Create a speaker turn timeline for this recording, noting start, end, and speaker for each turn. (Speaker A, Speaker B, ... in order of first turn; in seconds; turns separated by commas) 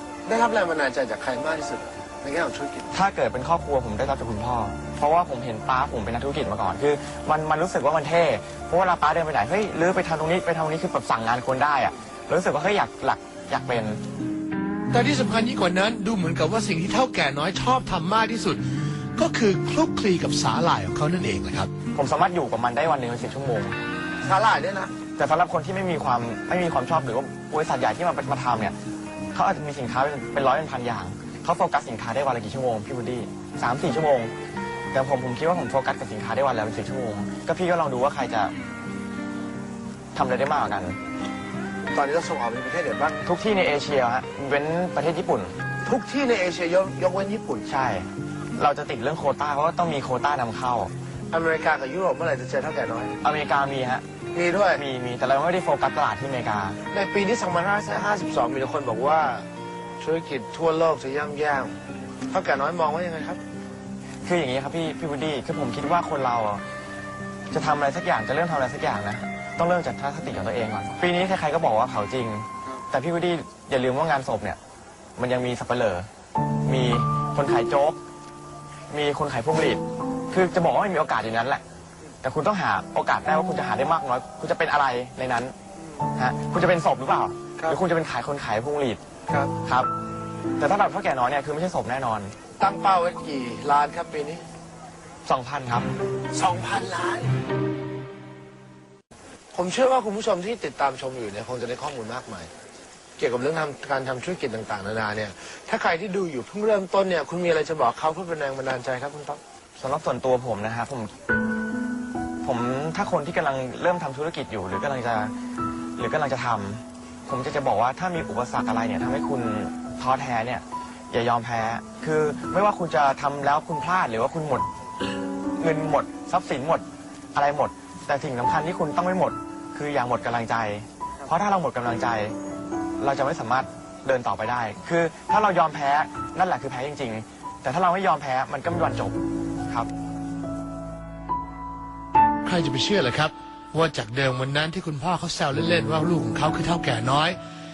Speaker A: 0.3-2.9, Speaker B: 2.9-14.0, Speaker C: 14.9-18.6, Speaker C: 19.2-21.7, Speaker B: 21.9-23.8, Speaker A: 24.2-24.9, Speaker B: 25.2-28.8, Speaker B: 29.3-34.3, Speaker B: 34.9-38.5, Speaker B: 40.1-41.0, Speaker A: 41.9-43.2, Speaker B: 43.2-45.5, Speaker A: 45.9-47.7, Speaker B: 47.7-50.9, Speaker A: 51.3-53.2, Speaker B: 53.2-54.0, Speaker A: 54.3-54.8, Speaker B: 54.7-56.8, Speaker A: 56.9-59.5, Speaker A: 60.0-61.7, Speaker A: 62.3-63.4, Speaker B: 64.2-66.6, Speaker B: 67.5-74.6, Speaker B: 75.2-76.1, Speaker B: 76.7-78.0, Speaker B: 78.9-81.6, Speaker B: 82.2-85.5, Speaker B: 86.2-89.0, Speaker A: 89.3-89.5, Speaker B: 89.6-89.9, Speaker B: 90.6-92.3, Speaker A: 92.6-94.4, Speaker B: 95.2-95.9, Speaker A: 96.3-97.3, Speaker A: 99.5-102.5, Speaker A: 103.2-109.4, Speaker B: 109.8-111.1, Speaker B: 112.4-115.3, Speaker B: 116.0-124.7, Speaker B: 125.6-132.3, Speaker B: 133.0-139.9, Speaker C: 142.4-147.4